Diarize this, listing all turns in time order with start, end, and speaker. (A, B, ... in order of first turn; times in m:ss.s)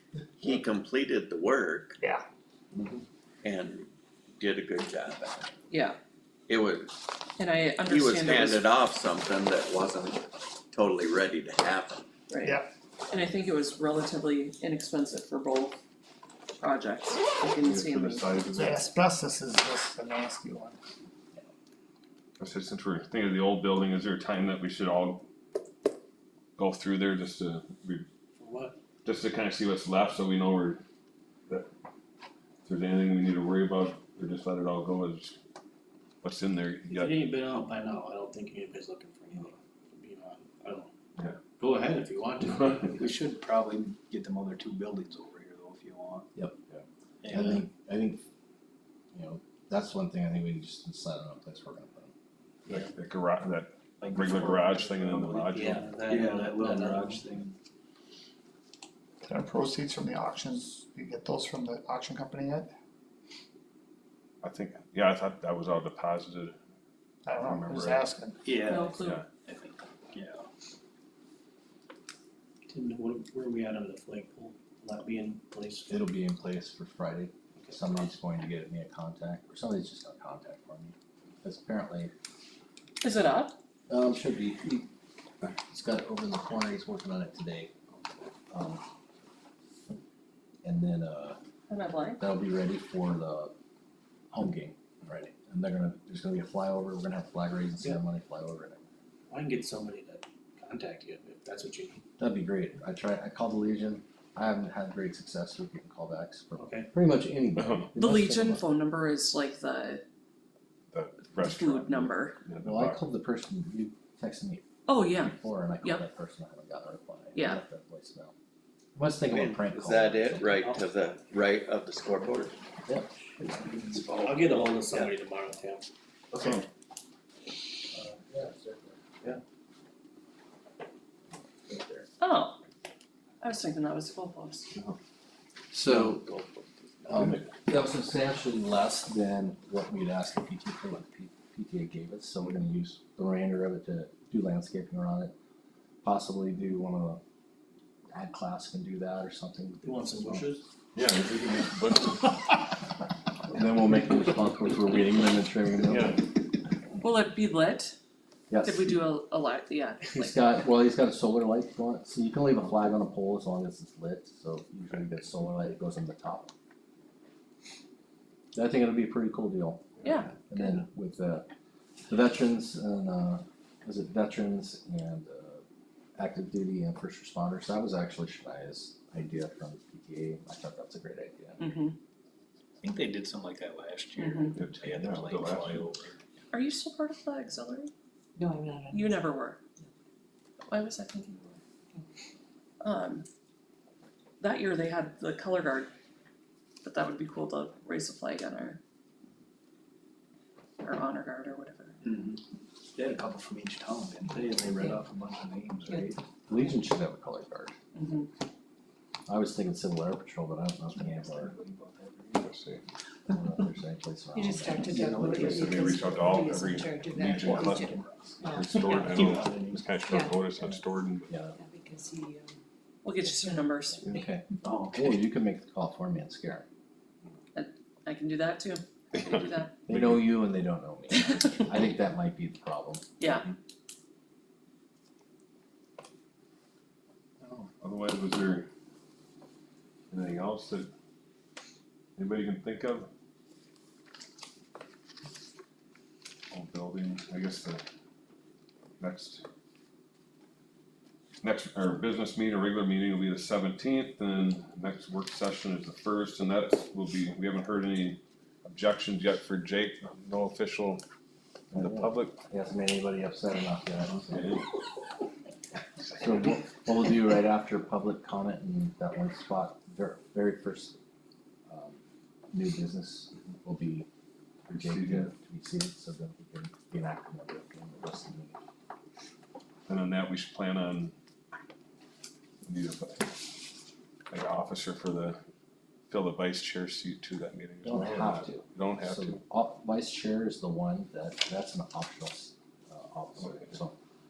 0:00.4-0:02.0 A
0:02.7-0:03.0 B
0:03.4-0:05.5 A
0:05.7-0:06.0 C
0:06.5-0:07.0 A
0:07.4-0:08.7 C
0:07.8-0:12.1 A
0:12.3-0:12.6 C
0:13.1-0:15.8 C
0:16.6-0:18.8 C
0:17.6-0:18.8 D
0:18.5-0:20.8 E
0:22.4-0:25.2 D
0:26.6-0:28.1 D
0:28.4-0:28.8 F
0:29.0-0:30.8 D
0:32.6-0:35.4 D
0:36.2-0:37.2 D
0:36.9-0:40.9 F
0:41.5-0:43.0 F
0:43.0-0:46.3 G
0:47.2-0:47.6 G
0:47.3-0:48.2 B
0:49.1-0:52.1 B
0:52.6-0:55.9 D
0:54.0-0:57.6 G
0:55.5-0:57.3 F
0:59.2-1:02.7 E
1:04.4-1:06.5 D
1:07.2-1:08.4 E
1:07.3-1:08.1 D
1:08.4-1:10.5 G
1:08.6-1:09.2 C
1:09.0-1:09.2 D
1:12.7-1:16.0 F
1:15.9-1:22.1 B
1:23.0-1:23.5 C
1:23.9-1:24.9 B
1:25.5-1:27.7 B
1:28.5-1:28.8 B
1:30.6-1:31.4 B
1:31.7-1:32.2 C
1:32.2-1:33.5 B
1:34.3-1:38.8 B
1:39.3-1:42.0 F
1:42.2-1:48.7 B
1:46.5-1:46.9 F
1:47.6-1:47.9 D
1:48.0-1:50.0 C
1:50.9-1:53.0 D
1:51.4-1:52.4 C
1:52.6-1:58.3 B
1:54.9-1:56.0 C
1:57.3-1:57.6 C
1:58.9-2:00.6 B
1:59.3-2:02.6 A
2:00.4-2:00.9 F
2:02.9-2:03.2 B
2:03.7-2:05.1 A
2:04.1-2:05.8 F
2:08.3-2:08.6 B
2:11.7-2:12.1 B
2:12.2-2:12.6 C
2:13.4-2:14.7 C
2:15.7-2:16.2 B
2:15.9-2:17.5 F
2:17.1-2:25.3 B
2:26.0-2:27.2 B
2:28.1-2:30.4 B
2:29.8-2:30.6 F
2:30.9-2:32.4 D
2:33.5-2:36.4 B
2:35.8-2:36.2 D
2:37.0-2:38.0 C
2:38.5-2:39.1 B
2:38.6-2:40.4 C
2:40.1-2:46.5 B
2:48.5-2:51.5 B
2:50.0-2:50.4 C
2:52.1-2:55.6 B
2:56.2-3:01.7 B
3:01.6-3:02.0 C
3:02.8-3:06.2 G
3:04.2-3:04.5 C
3:04.5-3:05.9 D
3:06.5-3:07.9 C
3:08.4-3:09.0 H
3:08.9-3:09.6 C
3:10.7-3:11.6 C
3:12.8-3:13.2 C
3:14.4-3:15.9 C
3:16.8-3:18.8 C
3:20.8-3:22.0 C
3:22.0-3:22.4 G
3:22.9-3:26.2 G
3:26.5-3:27.8 B
3:27.9-3:28.3 C
3:29.3-3:31.5 B
3:30.9-3:32.4 G
3:32.3-3:32.8 D
3:33.3-3:35.2 B
3:34.3-3:38.6 H
3:34.8-3:36.6 G
3:35.2-3:41.4 D
3:37.4-3:40.4 G
3:41.3-3:41.6 B
3:41.5-3:42.5 H
3:43.0-3:44.0 C
3:43.4-3:44.2 H
3:44.1-3:46.6 B
3:44.6-3:45.2 G
3:47.5-3:49.8 C
3:49.1-3:50.3 D
3:49.9-3:53.0 B
3:53.2-3:53.5 C
3:57.8-3:58.7 D
4:00.1-4:00.9 D
4:02.2-4:03.1 D
4:06.5-4:07.8 D
4:09.0-4:09.4 D
4:11.4-4:21.0 D
4:21.7-4:22.4 D
4:21.7-4:24.6 B
4:24.3-4:24.6 D
4:26.2-4:31.0 B
4:31.7-4:32.0 B
4:32.5-4:34.1 B
4:34.7-4:38.6 B
4:34.7-4:35.3 D
4:39.9-4:41.1 D
4:42.6-4:43.4 D
4:44.3-4:45.4 D
4:46.1-4:49.4 D
4:47.8-4:53.9 B
4:53.4-4:53.7 D